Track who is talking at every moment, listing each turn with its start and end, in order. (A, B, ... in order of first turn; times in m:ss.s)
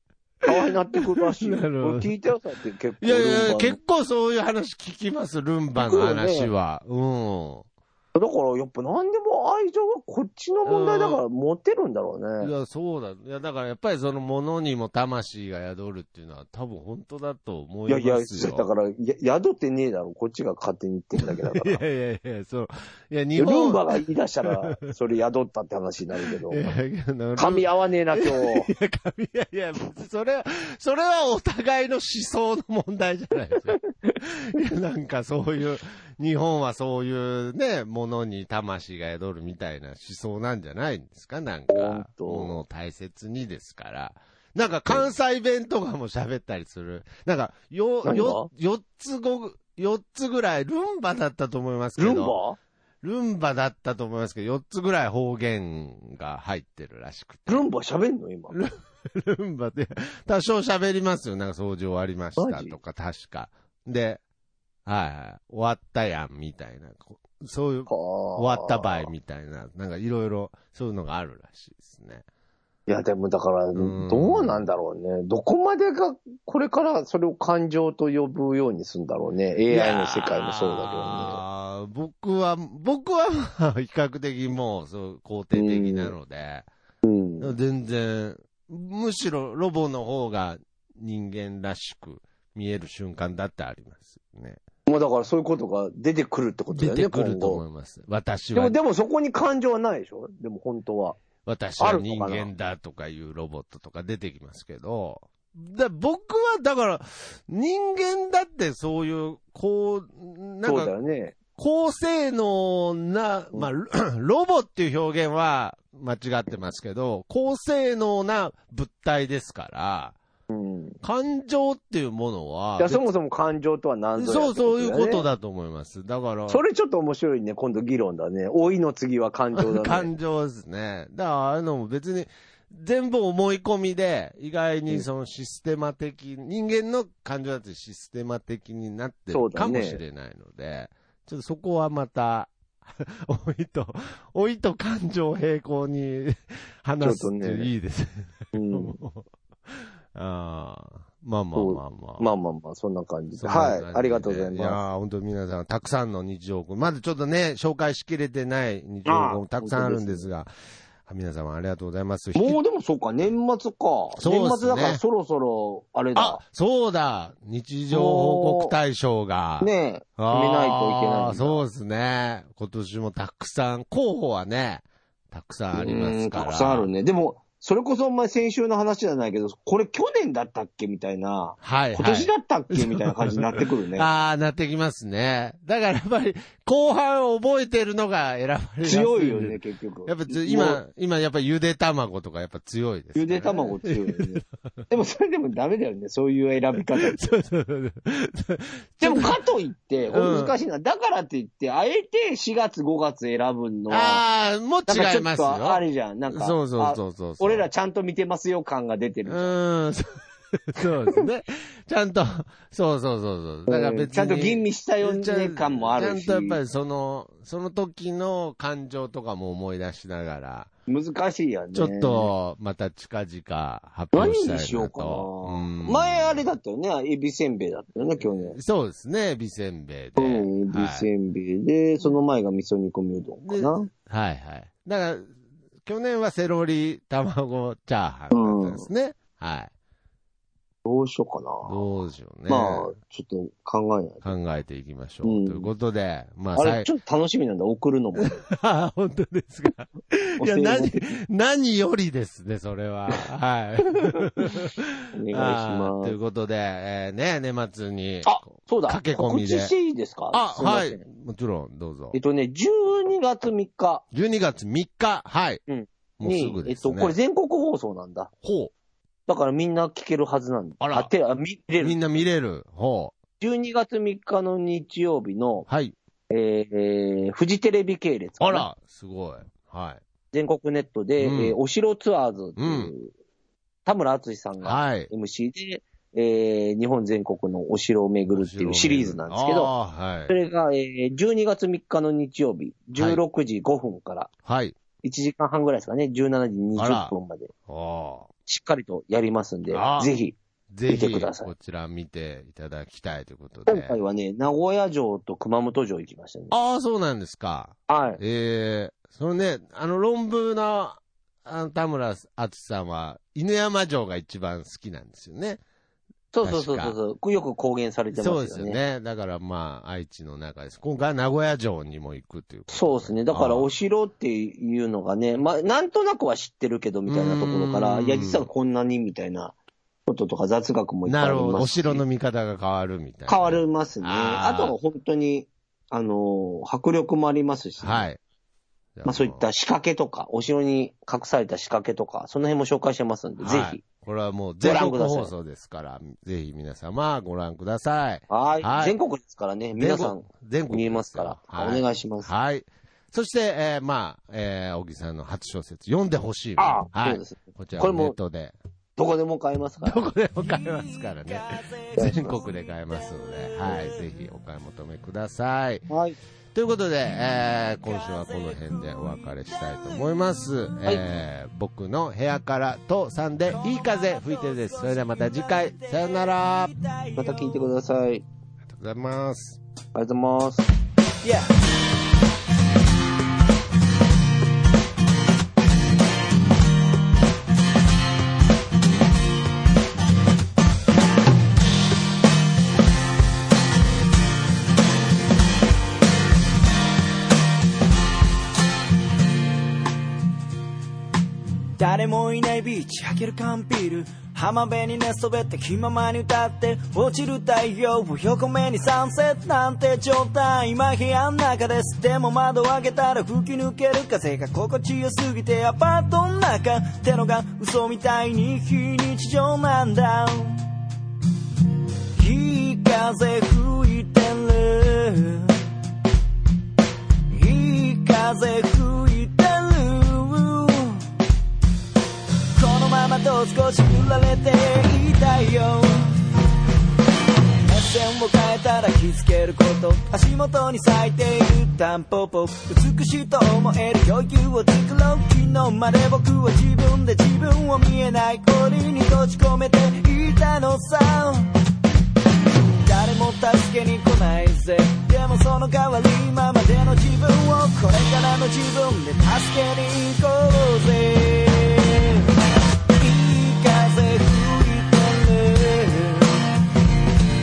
0:00.4-0:03.8 A
0:00.5-0:02.1 B
0:03.0-0:07.7 B
0:05.8-0:06.5 A
0:08.2-0:12.5 A
0:10.7-0:11.2 B
0:12.4-0:18.7 B
0:17.9-0:21.8 A
0:21.2-0:23.9 B
0:23.4-0:26.7 A
0:26.5-0:52.4 B
0:27.4-0:28.7 A
0:41.7-0:42.6 A
0:48.0-0:48.5 A
0:52.0-0:52.6 A
0:53.0-0:57.6 B
0:57.5-0:58.6 A
0:58.5-1:04.2 B
1:02.4-1:02.8 A
1:04.9-1:12.2 B
1:07.9-1:09.1 A
1:12.9-1:21.4 A
1:13.8-1:14.6 B
1:19.7-1:26.7 B
1:25.5-1:26.2 A
1:27.0-1:27.6 A
1:27.4-1:34.6 B
1:34.9-1:37.6 A
1:36.7-1:38.8 B
1:38.6-1:41.2 A
1:41.4-1:50.9 B
1:41.8-1:42.5 A
1:50.6-1:51.4 A
1:51.6-2:00.2 B
2:00.5-2:01.0 A
2:01.0-2:03.1 B
2:02.8-2:05.2 A
2:04.2-2:06.6 B
2:06.5-2:10.1 A
2:09.6-2:32.3 B
2:19.3-2:20.0 A
2:27.0-2:27.7 A
2:28.5-2:29.0 A
2:31.6-2:34.8 A
2:33.4-2:40.5 B
2:39.0-2:40.3 A
2:41.0-2:42.6 B
2:42.4-2:46.4 A
2:44.2-2:45.0 B
2:46.2-2:56.9 B
2:47.9-2:48.8 A
2:49.6-2:51.6 A
2:55.7-3:04.1 A
3:01.6-3:14.5 B
3:08.8-3:10.8 A
3:13.2-3:17.3 A
3:17.0-3:19.3 B
3:19.0-3:24.2 A
3:20.1-3:20.6 B
3:23.9-3:27.7 B
3:24.9-3:29.6 A
3:29.3-3:40.7 B
3:33.7-3:36.6 A
3:40.9-3:42.3 A
3:41.7-3:46.5 B
3:44.1-3:48.6 A
3:48.2-3:51.1 B
3:50.2-3:53.9 A
3:53.4-3:55.3 B
3:55.8-3:59.7 B
3:58.3-3:58.9 A
4:00.8-4:01.8 A
4:01.7-4:02.9 B
4:02.5-4:04.3 A
4:04.2-4:06.9 B
4:05.2-4:05.7 A
4:06.6-4:08.4 A
4:08.2-4:19.7 B
4:10.4-4:11.2 A
4:14.1-4:16.2 A
4:18.2-4:21.1 A
4:20.3-4:22.2 B
4:22.1-4:24.0 A
4:24.1-4:25.6 B
4:25.7-4:28.3 A
4:26.2-4:27.2 B
4:28.4-4:28.7 B
4:29.3-4:32.0 A
4:30.8-4:31.1 B
4:31.8-4:33.2 B
4:33.4-4:35.7 A
4:35.7-4:36.0 B
4:36.3-4:38.7 A
4:38.4-4:40.0 B
4:40.3-4:43.1 A
4:41.2-4:41.6 B
4:42.6-4:42.9 B
4:43.8-4:49.7 A
4:44.6-4:45.1 B
4:48.3-4:50.3 B
4:50.3-4:54.3 A
4:54.4-4:54.8 B
4:55.0-4:57.5 A
4:56.8-4:57.1 B
4:57.7-4:58.3 B
4:58.5-5:01.5 A
4:59.7-5:00.1 B
5:00.7-5:04.0 B
5:03.7-5:06.5 A
5:06.5-5:15.6 B
5:07.9-5:08.2 A
5:16.3-5:18.8 A
5:16.4-5:17.0 B
5:18.1-5:23.7 B
5:22.7-5:29.6 A
5:27.1-5:28.5 B
5:30.1-5:32.0 A
5:31.1-5:34.8 B
5:33.3-5:38.1 A
5:37.8-5:38.2 B
5:39.0-5:39.4 B
5:39.0-5:43.8 A
5:43.4-5:49.0 B
5:44.6-5:45.3 A
5:48.3-5:52.3 A
5:49.8-5:58.6 B
5:56.6-5:58.2 A
5:59.0-6:00.1 A
5:59.8-6:05.9 B
6:00.4-6:04.1 C
6:02.0-6:02.3 A
6:05.9-6:06.2 A
6:06.5-6:16.7 B
6:07.7-6:10.2 C
6:13.5-6:17.7 C
6:17.2-6:18.3 A
6:18.7-6:19.6 B
6:20.0-6:20.7 A
6:21.2-6:21.5 C
6:41.8-7:00.7 C
7:02.2-7:05.6 C
7:07.3-7:11.1 C
7:12.6-7:16.2 C
7:17.6-7:31.5 C
7:32.8-7:42.3 C
7:43.0-7:46.5 C